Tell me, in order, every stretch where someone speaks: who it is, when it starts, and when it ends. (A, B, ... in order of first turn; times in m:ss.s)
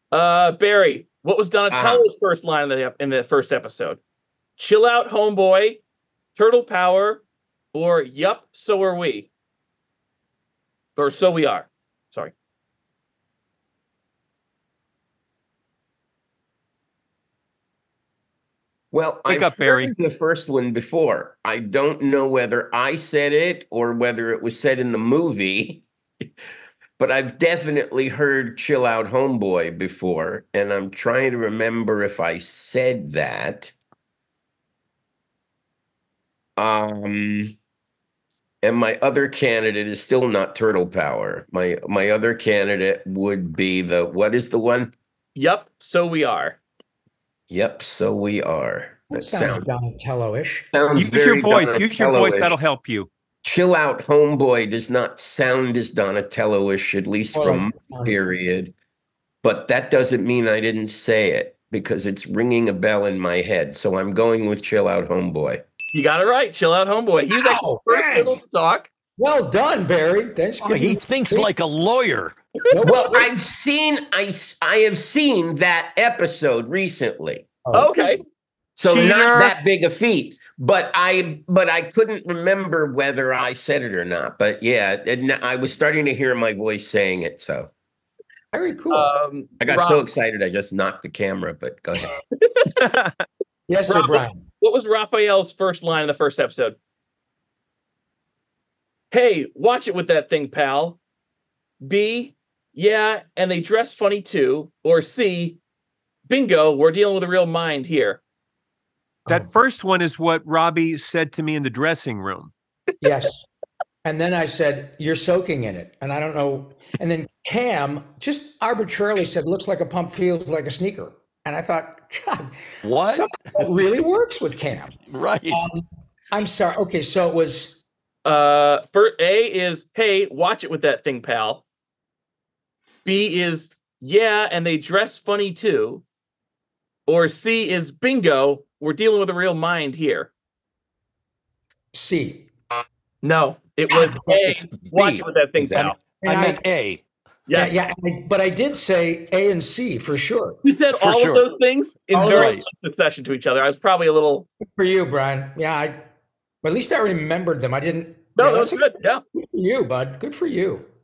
0:00.1-0:04.0 A
0:01.7-0:02.1 B
0:04.6-0:05.8 A
0:06.4-0:09.3 A
0:11.0-0:12.3 A
0:18.9-0:25.8 B
0:19.3-0:19.9 C
0:27.0-0:33.7 B
0:36.6-0:37.5 B
0:38.6-0:44.9 B
0:45.4-0:46.6 A
0:47.5-0:49.7 B
0:49.1-0:50.7 D
0:50.7-0:52.6 B
0:50.9-0:53.1 C
0:53.4-0:58.7 B
0:57.3-0:58.2 D
0:59.4-1:05.6 B
1:05.9-1:08.9 A
1:07.3-1:08.4 D
1:09.2-1:11.5 D
1:10.6-1:12.4 E
1:12.7-1:13.3 D
1:12.8-1:17.5 B
1:17.6-1:17.9 D
1:17.7-1:18.2 A
1:18.8-1:27.7 B
1:18.8-1:19.5 C
1:28.5-1:29.1 D
1:28.9-1:30.0 A
1:29.6-1:32.2 B
1:32.4-1:32.8 A
1:32.8-1:33.2 C
1:33.7-1:34.4 D
1:33.9-1:36.8 A
1:39.1-1:41.0 A
1:41.8-1:45.6 A
1:46.3-1:48.2 A
1:49.3-1:52.5 C
1:53.0-1:53.4 D
1:54.0-2:07.8 D
2:02.8-2:03.7 E
2:05.1-2:05.7 E
2:08.2-2:11.6 A
2:13.0-2:16.0 A
2:17.1-2:20.3 A
2:21.9-2:22.5 D
2:23.2-2:26.0 A
2:23.9-2:24.5 D
2:24.8-2:27.0 E
2:26.2-2:26.6 D
2:27.5-2:27.8 A
2:27.5-2:30.6 D
2:30.6-2:34.5 A
2:30.9-2:31.4 E
2:32.1-2:32.6 D
2:32.3-2:32.6 E
2:34.6-2:36.0 D
2:36.6-2:40.8 D
2:38.4-2:39.2 A